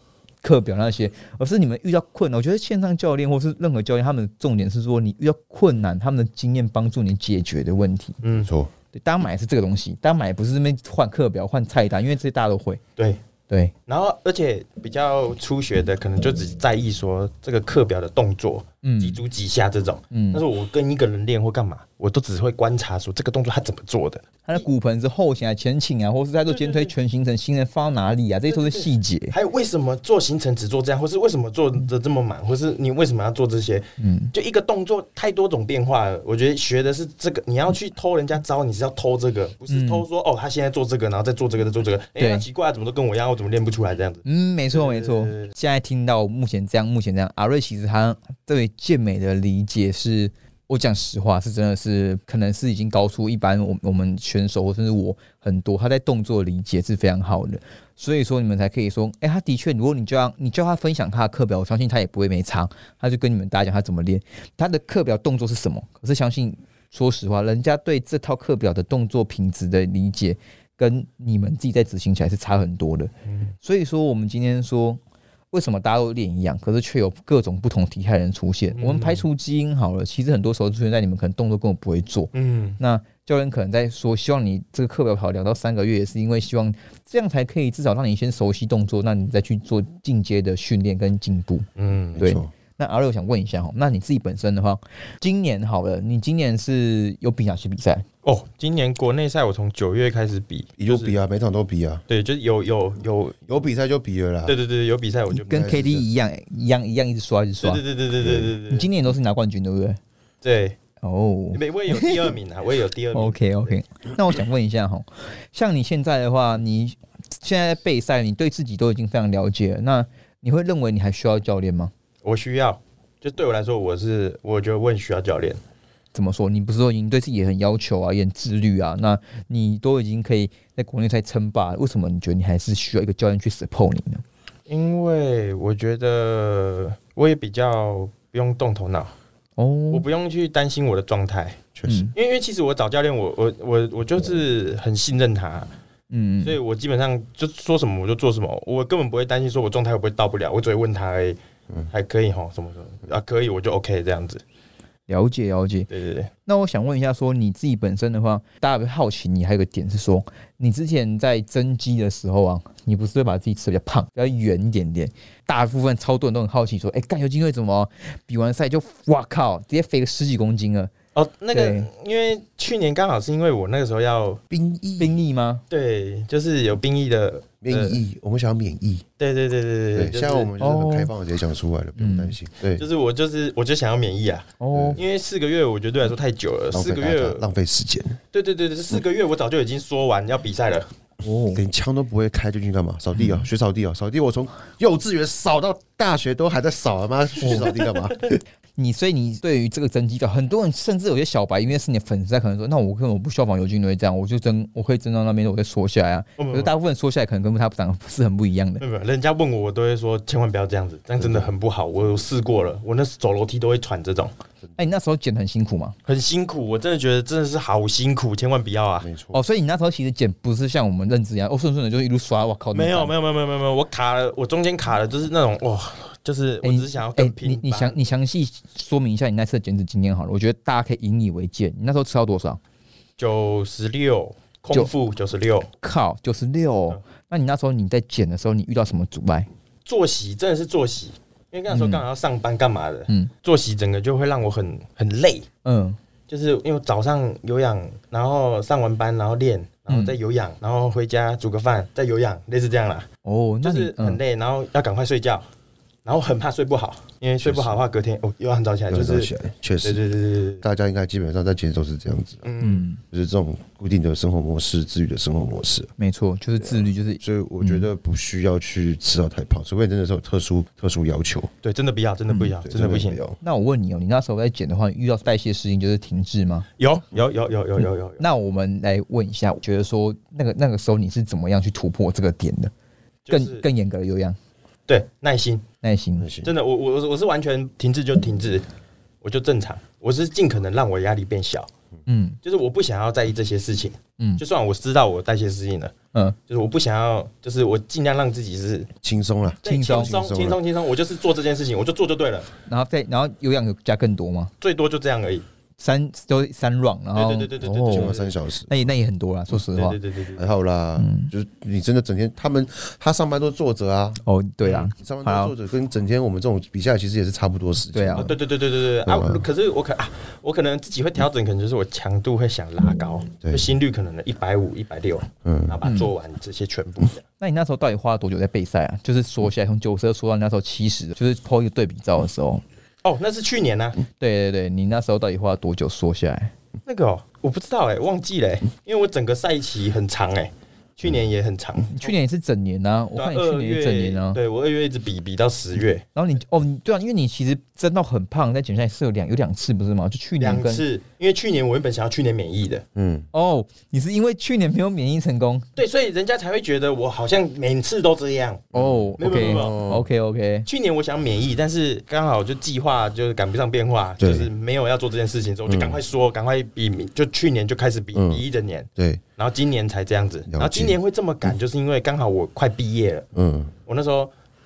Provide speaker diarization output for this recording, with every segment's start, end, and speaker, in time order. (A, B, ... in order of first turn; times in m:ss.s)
0:00.4-0:08.2 A
0:08.2-0:08.5 B
0:08.4-0:08.7 C
0:08.9-0:12.8 A
0:13.9-0:24.6 B
0:18.8-0:19.2 A
0:20.1-0:20.4 A
0:24.4-0:29.3 A
0:26.5-0:26.9 B
0:28.5-0:45.5 B
0:34.0-0:34.3 A
0:39.7-0:40.0 A
0:42.2-0:42.4 A
0:44.2-1:13.1 A
1:13.2-1:13.5 B
1:13.6-1:15.0 A
1:15.5-1:31.7 A
1:18.7-1:19.2 B
1:22.3-1:22.8 B
1:31.8-1:32.2 B
1:32.1-1:32.5 C
1:32.2-1:38.0 A
1:38.2-1:41.2 B
1:40.8-1:42.0 C
1:42.1-1:43.5 B
1:43.5-1:44.6 C
1:44.4-1:45.8 B
1:45.3-1:47.8 A
1:45.5-1:46.0 C
1:47.6-1:48.9 B
1:48.2-1:48.5 C
1:48.7-1:50.0 A
1:50.4-1:50.8 B
1:51.0-1:52.3 A
1:51.5-1:53.8 B
1:53.1-2:01.9 A
2:02.2-2:05.6 B
2:06.1-2:14.2 A
2:14.7-2:19.1 B
2:19.6-2:20.0 A
2:19.9-2:21.6 B
2:21.7-2:22.1 C
2:21.9-2:22.1 A
2:22.1-2:25.7 B
2:26.1-2:26.6 A
2:26.4-2:31.4 B
2:31.9-2:34.4 B
2:35.1-2:35.9 A
2:35.9-2:36.3 B
2:36.4-2:50.9 A
2:51.1-2:54.4 B
2:51.5-2:51.9 A
2:54.5-2:55.2 C
2:55.0-2:55.6 A
2:55.7-2:58.0 B
2:57.6-2:59.0 C
2:59.2-3:00.5 B
3:00.0-3:02.8 C
3:00.6-3:01.1 A
3:02.0-3:02.4 A
3:02.8-3:07.4 B
3:04.6-3:05.0 A
3:04.7-3:05.0 C
3:06.7-3:08.2 C
3:08.3-3:10.9 B
3:11.2-3:11.6 A
3:11.5-3:18.4 C
3:13.1-3:13.4 A
3:17.4-3:17.7 A
3:17.4-3:18.1 B
3:18.8-3:28.8 A
3:26.4-3:26.7 B
3:28.8-3:34.3 B
3:31.2-3:31.5 C
3:34.8-3:36.0 A
3:36.0-3:39.1 B
3:39.0-3:39.4 C
3:39.3-3:43.1 A
3:42.7-3:48.0 B
3:46.6-3:52.6 A
3:53.2-3:55.7 B
3:55.8-3:59.5 A
3:59.8-4:05.5 B
4:01.7-4:02.0 A
4:05.6-4:06.0 A
4:06.3-4:13.1 B
4:09.9-4:10.1 A
4:13.2-4:14.2 A
4:13.6-4:15.4 B
4:16.0-4:19.3 B
4:17.4-4:17.8 C
4:18.9-4:20.0 C
4:19.8-4:20.6 B
4:20.6-4:22.4 C
4:22.4-4:22.8 B
4:22.6-4:23.0 A
4:23.1-4:25.9 C
4:26.0-4:27.9 A
4:27.2-4:31.5 C
4:31.6-4:33.2 B
4:32.6-4:33.4 C
4:33.4-4:36.7 A
4:36.8-4:38.2 B
4:37.8-4:42.7 A
4:43.2-4:43.6 B
4:43.3-4:44.4 A
4:44.9-4:45.6 B
4:45.8-4:46.3 A
4:46.2-4:46.5 C
4:46.4-4:48.6 B
4:49.2-4:51.7 B
4:52.1-4:52.4 A
4:52.4-4:55.9 B
4:56.5-4:58.9 B
4:59.0-5:00.6 C
4:59.6-5:02.5 B
4:59.6-5:00.1 A
5:02.6-5:04.5 A
5:04.6-5:05.4 B
5:05.8-5:08.1 A
5:07.1-5:08.3 B
5:07.9-5:08.7 C
5:08.7-5:10.0 A
5:09.6-5:10.5 B
5:10.4-5:14.2 C
5:11.0-5:11.3 A
5:14.2-5:15.5 A
5:15.0-5:18.4 C
5:17.9-5:18.3 A
5:18.1-5:27.2 B
5:19.0-5:19.4 C
5:23.4-5:23.7 C
5:25.4-5:25.8 C
5:25.8-5:26.1 A
5:27.4-5:32.6 A
5:33.0-5:34.0 B
5:34.2-5:36.5 A
5:36.8-5:42.1 B
5:41.9-5:44.4 A
5:43.2-5:46.0 B
5:46.1-5:50.8 A
5:50.4-5:52.8 B
5:52.9-5:53.3 C
5:53.3-5:55.7 A
5:55.8-5:58.7 B
5:58.7-6:00.1 C
5:58.7-6:00.7 A
5:59.2-5:59.8 B
6:00.6-6:13.3 B
6:04.2-6:04.5 C
6:05.7-6:06.0 C
6:08.1-6:08.4 C
6:09.0-6:09.2 C
6:10.5-6:11.0 C
6:13.3-6:13.7 C
6:13.8-6:14.3 B